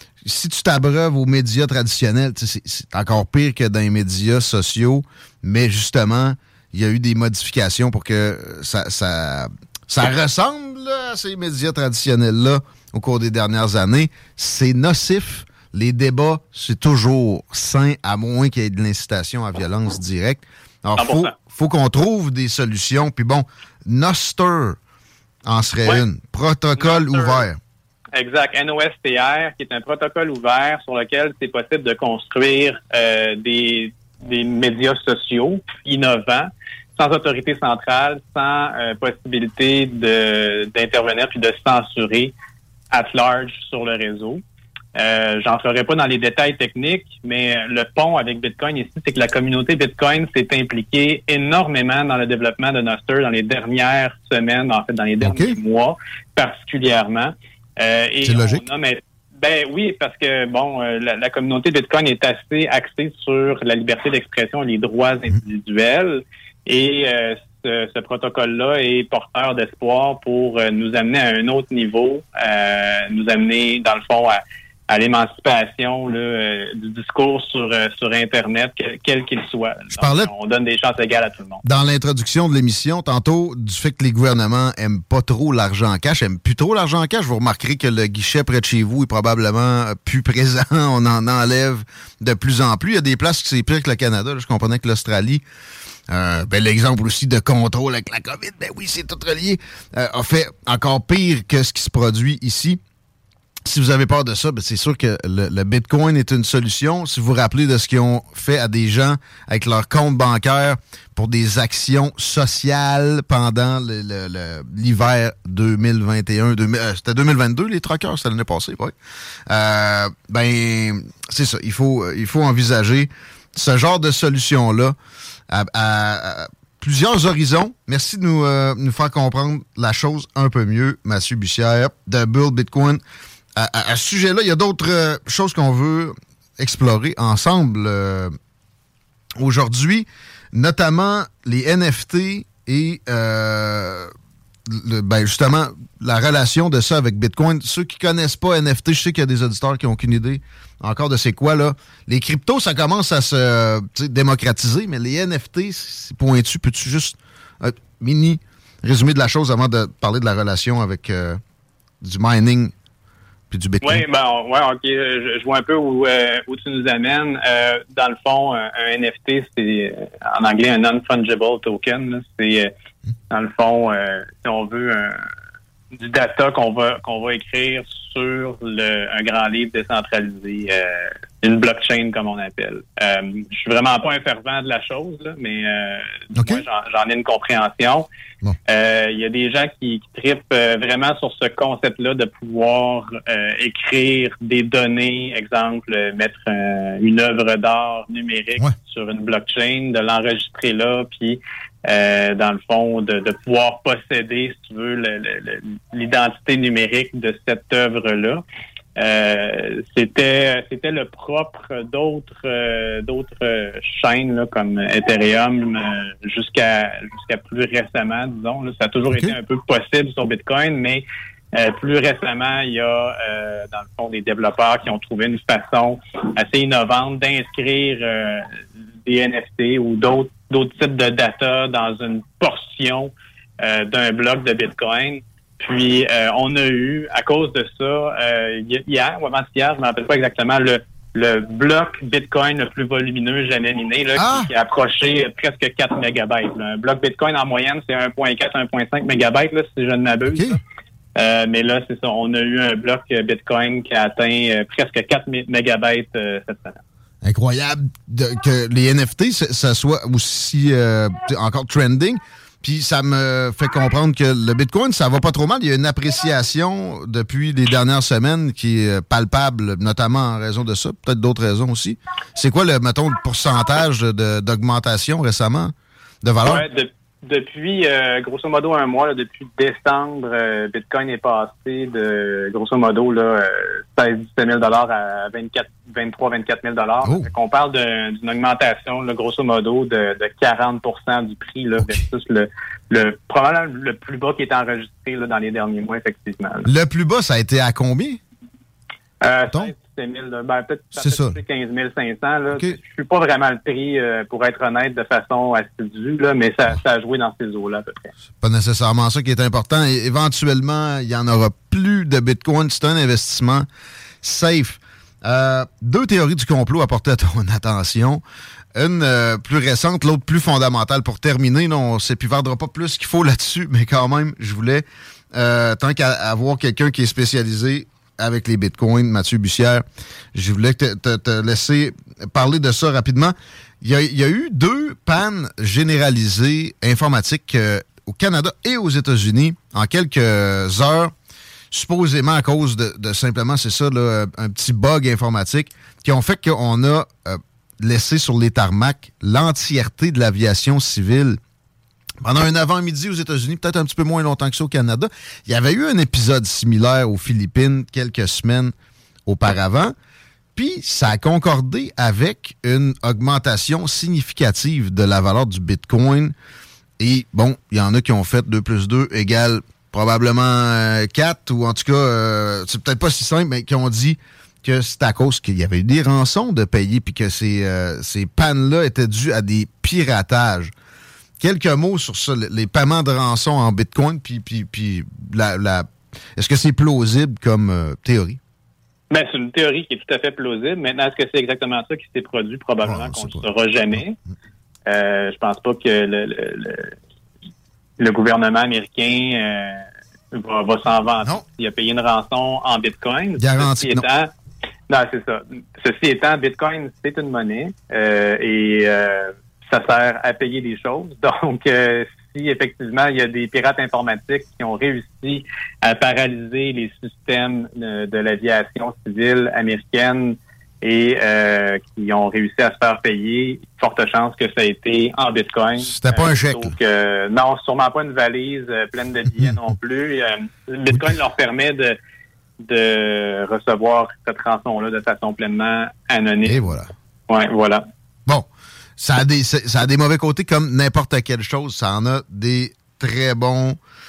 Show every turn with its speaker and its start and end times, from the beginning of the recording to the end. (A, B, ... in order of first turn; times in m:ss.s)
0:00.2-0:24.8 A
0:21.0-0:21.3 B
0:25.4-0:27.6 A
0:26.8-0:27.5 B
0:28.2-0:42.3 B
0:42.9-0:44.4 B
0:45.0-1:21.6 B
0:55.2-0:55.6 A
0:58.2-0:58.6 A
1:19.9-1:20.3 A
1:21.6-1:35.4 A
1:36.1-1:42.8 A
1:43.6-1:58.9 A
1:59.5-2:05.0 A
2:05.5-2:13.0 A
2:13.6-2:18.4 A
2:19.4-2:24.1 A
2:24.7-2:41.4 A
2:42.0-2:42.7 A
2:43.5-2:44.0 A
2:43.8-2:52.7 B
2:53.3-2:55.2 B
2:56.0-3:08.1 B
3:06.4-3:06.6 A
3:08.7-3:28.4 B
3:29.0-3:48.5 B
3:49.0-4:10.6 B
4:04.2-4:04.5 A
4:10.3-4:10.6 A
4:11.2-4:16.8 B
4:17.2-4:36.6 A
4:36.4-4:56.7 B
4:47.0-4:47.3 A
4:56.6-4:58.2 A
4:59.2-5:08.1 B
5:01.0-5:01.4 A
5:08.4-5:13.7 A
5:14.2-5:18.2 A
5:18.8-5:41.1 A
5:41.7-5:51.4 A
5:52.2-5:58.7 A
5:59.3-6:00.0 A
6:00.6-6:06.3 A
6:07.0-6:20.7 A
6:21.4-6:28.4 A
6:29.1-6:34.2 B
6:32.8-6:34.0 A
6:34.9-6:37.0 B
6:38.0-6:44.3 B
6:43.4-6:44.1 A
6:44.9-7:12.0 B
7:05.8-7:06.8 A
7:09.3-7:09.6 A
7:10.9-7:11.2 A
7:12.6-7:16.7 B
7:16.4-7:16.9 A
7:17.3-7:17.8 B
7:19.0-7:23.8 A